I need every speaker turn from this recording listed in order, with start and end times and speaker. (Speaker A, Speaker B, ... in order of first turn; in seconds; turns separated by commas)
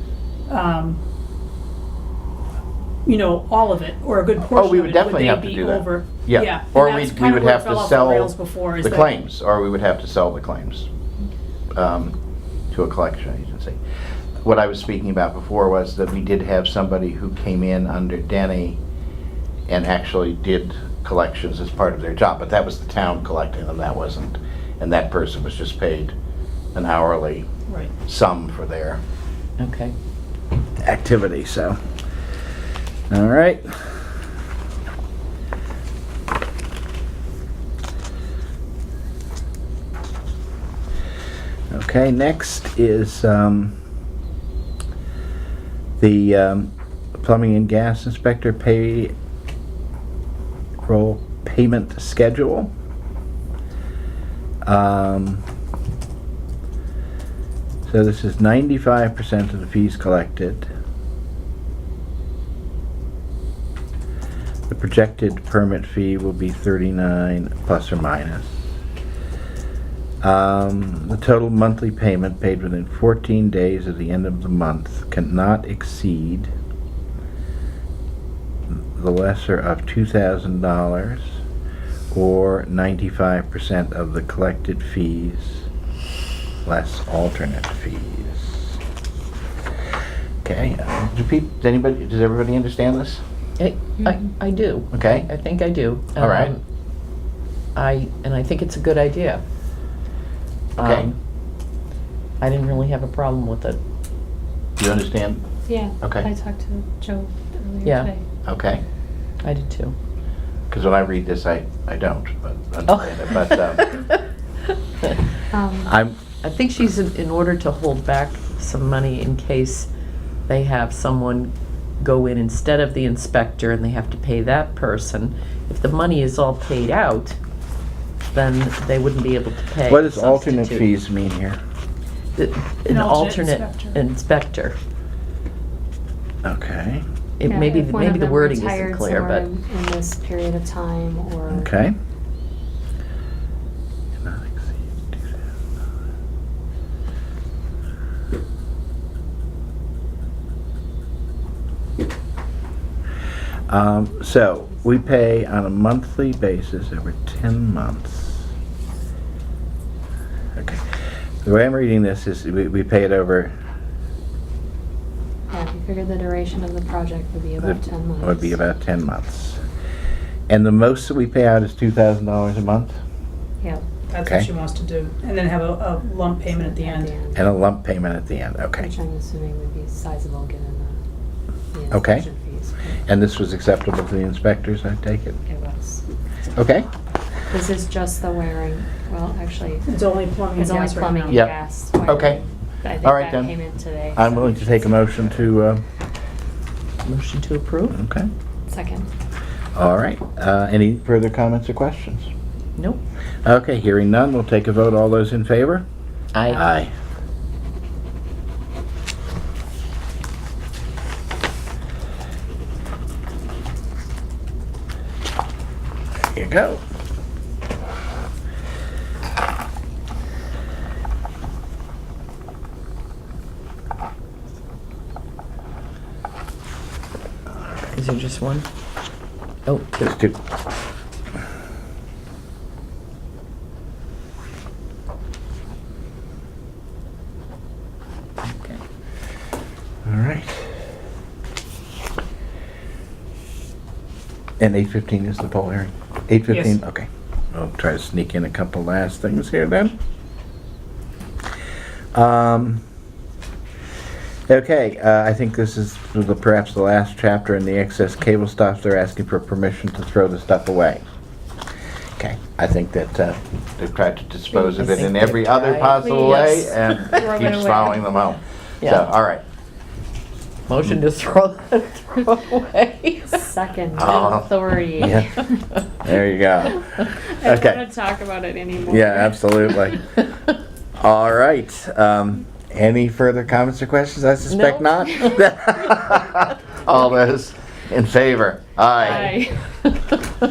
Speaker A: 0.5-1.0, Speaker A: 3.0-9.2, Speaker B: 4.4-10.9, Speaker B: 11.7-12.2, Speaker B: 12.7-13.8, Speaker B: 14.4-18.8, Speaker B: 19.7-26.1, Speaker B: 26.7-27.5, Speaker A: 27.7-27.9, Speaker B: 28.1-29.0, Speaker C: 29.6-29.9, Speaker B: 30.8-31.8, Speaker B: 33.1-34.0, Speaker B: 41.7-43.8, Speaker B: 46.0-49.1, Speaker B: 50.8-52.7, Speaker B: 54.6-55.4, Speaker B: 57.9-60.7, Speaker B: 64.7-68.6, Speaker B: 70.2-76.5, Speaker B: 78.7-81.4, Speaker B: 82.1-85.7, Speaker B: 86.7-88.8, Speaker B: 90.4-93.2, Speaker C: 93.6-96.6, Speaker B: 94.9-95.3, Speaker B: 96.2-96.5, Speaker C: 97.8-99.4, Speaker C: 100.8-101.1, Speaker B: 100.8-101.1, Speaker C: 102.4-103.8, Speaker B: 104.8-105.5, Speaker D: 105.7-108.2, Speaker B: 106.0-106.3, Speaker C: 107.8-108.1, Speaker B: 108.5-108.8, Speaker C: 109.4-110.0, Speaker B: 110.7-113.9, Speaker C: 112.9-114.1, Speaker D: 115.5-115.9, Speaker B: 115.8-116.2, Speaker C: 116.4-119.9, Speaker C: 120.5-127.4, Speaker C: 128.3-130.9, Speaker B: 129.9-131.6, Speaker C: 132.3-134.8, Speaker A: 132.9-134.0, Speaker B: 136.4-137.0, Speaker C: 137.4-139.5, Speaker D: 137.4-141.7, Speaker B: 141.5-141.9, Speaker B: 144.2-145.3, Speaker B: 153.7-158.4, Speaker B: 160.6-160.8, Speaker B: 161.4-163.5, Speaker D: 165.5-168.6, Speaker B: 167.6-169.6, Speaker B: 170.5-173.0, Speaker A: 174.1-177.1, Speaker D: 176.4-177.5, Speaker B: 177.3-178.9, Speaker D: 178.8-181.0, Speaker D: 181.7-183.0, Speaker B: 181.9-182.3, Speaker B: 183.1-185.4, Speaker D: 185.5-186.0, Speaker B: 186.6-186.9, Speaker D: 187.5-189.9, Speaker A: 189.9-191.5, Speaker D: 190.6-195.5, Speaker B: 191.3-192.4, Speaker B: 193.0-193.6, Speaker B: 194.1-195.8, Speaker C: 197.0-198.0, Speaker B: 197.9-198.3, Speaker D: 198.7-199.1, Speaker B: 199.8-202.3, Speaker B: 203.4-205.8, Speaker C: 206.3-206.7, Speaker B: 206.5-206.9, Speaker B: 216.3-216.8, Speaker C: 227.9-228.7, Speaker C: 229.7-230.0, Speaker B: 230.0-230.4, Speaker C: 238.4-238.8, Speaker B: 240.1-240.7, Speaker B: 244.6-250.0, Speaker A: 246.5-246.8, Speaker B: 252.1-252.8, Speaker B: 254.5-261.0, Speaker B: 262.2-269.4, Speaker C: 264.5-267.4, Speaker D: 266.0-268.4, Speaker C: 268.8-269.1, Speaker C: 270.7-273.5, Speaker D: 273.3-275.6, Speaker B: 273.9-275.4, Speaker B: 276.0-277.9, Speaker D: 277.2-279.9, Speaker B: 278.9-280.0, Speaker B: 281.0-289.4, Speaker C: 284.5-285.4, Speaker D: 289.0-289.6, Speaker C: 289.0-289.4